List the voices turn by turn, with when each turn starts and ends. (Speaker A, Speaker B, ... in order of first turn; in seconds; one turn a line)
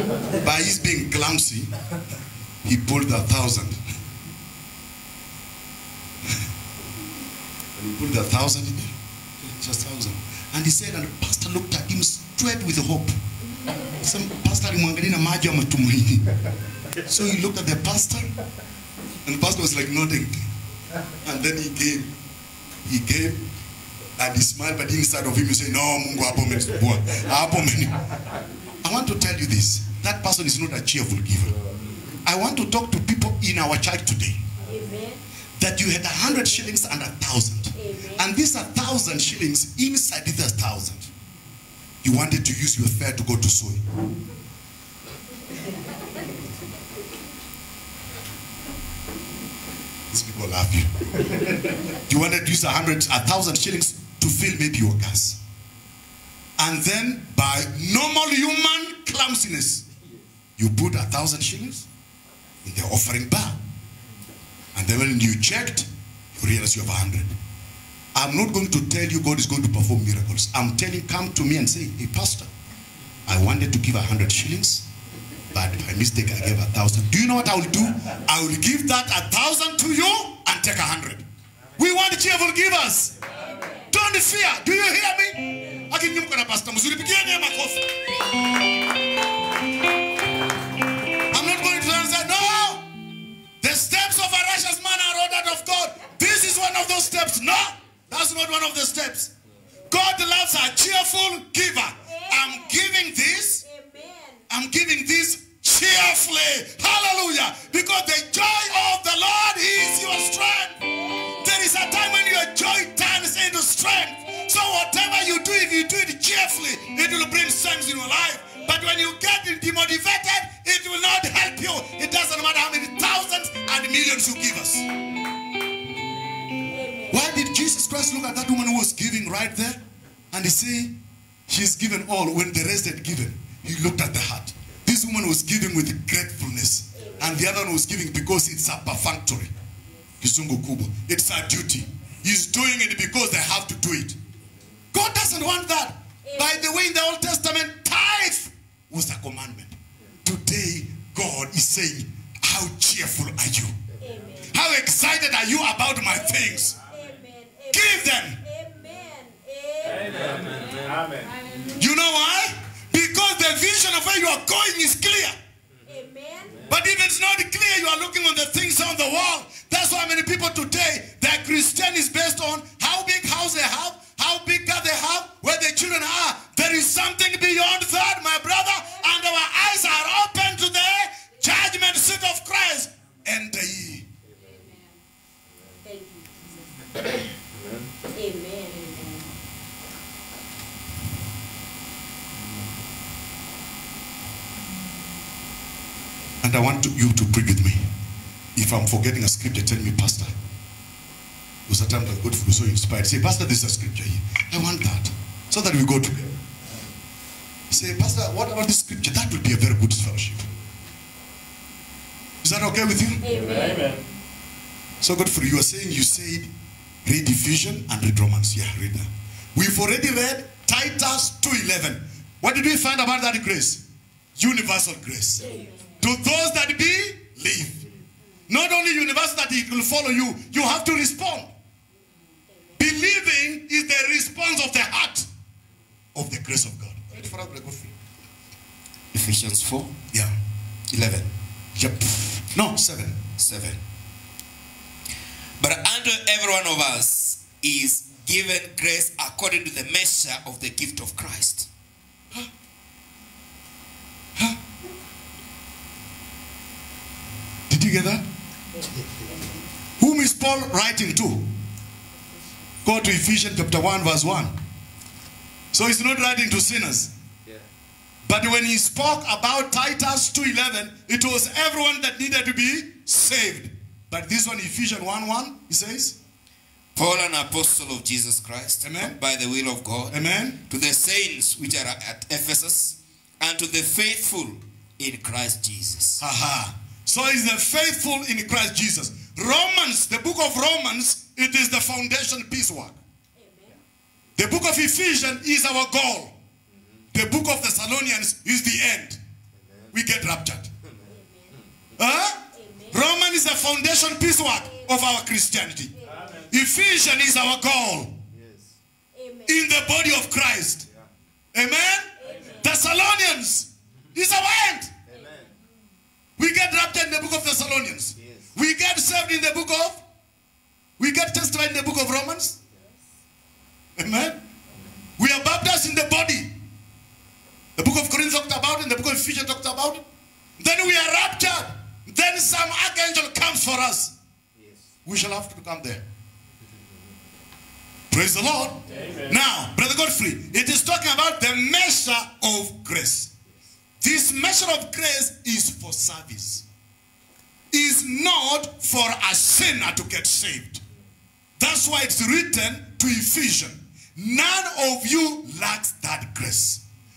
Speaker A: 0.3-1.7
Speaker A: 2.6-3.8
Speaker A: 7.8-13.1
Speaker A: 14.0-16.3
Speaker A: 17.1-18.3
Speaker A: 19.2-20.4
Speaker A: 21.2-22.1
Speaker A: 22.8-23.4
Speaker A: 24.2-28.0
Speaker A: 28.8-31.5
Speaker B: 31.6-31.9
Speaker A: 32.2-34.4
Speaker C: 34.6-35.2
Speaker A: 35.6-41.1
Speaker C: 37.8-38.2
Speaker A: 42.0-43.8
Speaker A: 50.1-51.2
Speaker A: 51.9-55.4
Speaker A: 56.6-59.8
Speaker A: 60.6-61.9
Speaker A: 62.6-63.6
Speaker A: 64.7-67.3
Speaker A: 68.1-72.5
Speaker A: 73.3-74.8
Speaker A: 75.5-81.2
Speaker A: 81.8-83.1
Speaker C: 83.2-83.9
Speaker A: 83.9-88.0
Speaker A: 91.3-92.9
Speaker A: 93.6-99.3
Speaker A: 99.9-103.6
Speaker C: 102.1-102.8
Speaker C: 103.6-104.4
Speaker A: 104.5-110.8
Speaker C: 110.9-111.5
Speaker A: 111.4-124.8
Speaker C: 126.7-127.2
Speaker A: 127.1-129.8
Speaker A: 130.3-130.9
Speaker A: 131.5-139.5
Speaker C: 136.9-137.3
Speaker A: 140.2-144.2
Speaker A: 144.9-153.7
Speaker C: 146.2-146.6
Speaker B: 153.9-154.3
Speaker C: 154.0-154.5
Speaker A: 154.5-156.8
Speaker C: 156.1-160.6
Speaker A: 157.7-158.4
Speaker B: 159.9-161.1
Speaker A: 161.8-165.3
Speaker C: 165.9-166.7
Speaker B: 166.5-166.7
Speaker A: 166.7-184.1
Speaker B: 184.2-184.7
Speaker C: 185.8-186.6
Speaker B: 187.5-187.9
Speaker C: 188.1-189.2
Speaker A: 196.4-197.8
Speaker A: 198.6-200.3
Speaker A: 201.7-206.3
Speaker A: 207.7-210.5
Speaker A: 212.4-213.2
Speaker C: 213.2-214.0
Speaker A: 215.0-216.5
Speaker A: 217.0-223.8
Speaker A: 224.4-225.4
Speaker C: 225.4-225.9
Speaker A: 226.0-227.8
Speaker A: 228.5-231.5
Speaker A: 232.8-235.3
Speaker A: 236.1-237.9
Speaker D: 239.1-239.9
Speaker D: 240.9-241.3
Speaker A: 241.8-243.2
Speaker D: 243.4-243.8
Speaker D: 245.6-251.7
Speaker A: 257.7-258.2
Speaker A: 260.0-261.5
Speaker A: 262.8-264.6
Speaker A: 265.7-267.1
Speaker A: 268.2-276.2
Speaker D: 276.9-280.2
Speaker A: 278.8-279.1
Speaker A: 280.1-280.6
Speaker D: 280.7-286.2
Speaker A: 286.2-293.0
Speaker C: 293.4-293.8
Speaker A: 294.4-296.3
Speaker B: 296.7-297.0
Speaker A: 297.1-299.2
Speaker B: 299.6-299.9
Speaker A: 299.9-300.7
Speaker C: 301.1-301.5
Speaker A: 302.0-305.9
Speaker C: 302.5-303.0
Speaker C: 306.0-306.3
Speaker A: 306.5-308.2
Speaker B: 308.3-308.8
Speaker C: 309.1-309.6
Speaker A: 309.4-310.9
Speaker A: 311.5-314.9
Speaker C: 312.2-312.7
Speaker B: 315.1-315.5
Speaker A: 316.4-320.0
Speaker B: 318.2-318.5
Speaker A: 321.0-322.6
Speaker A: 324.0-324.4
Speaker A: 325.2-326.5
Speaker A: 327.8-330.0
Speaker A: 330.6-334.1
Speaker B: 334.6-334.9
Speaker A: 335.0-336.0
Speaker A: 338.1-343.3
Speaker A: 344.0-346.6
Speaker A: 347.7-350.8
Speaker A: 351.6-356.8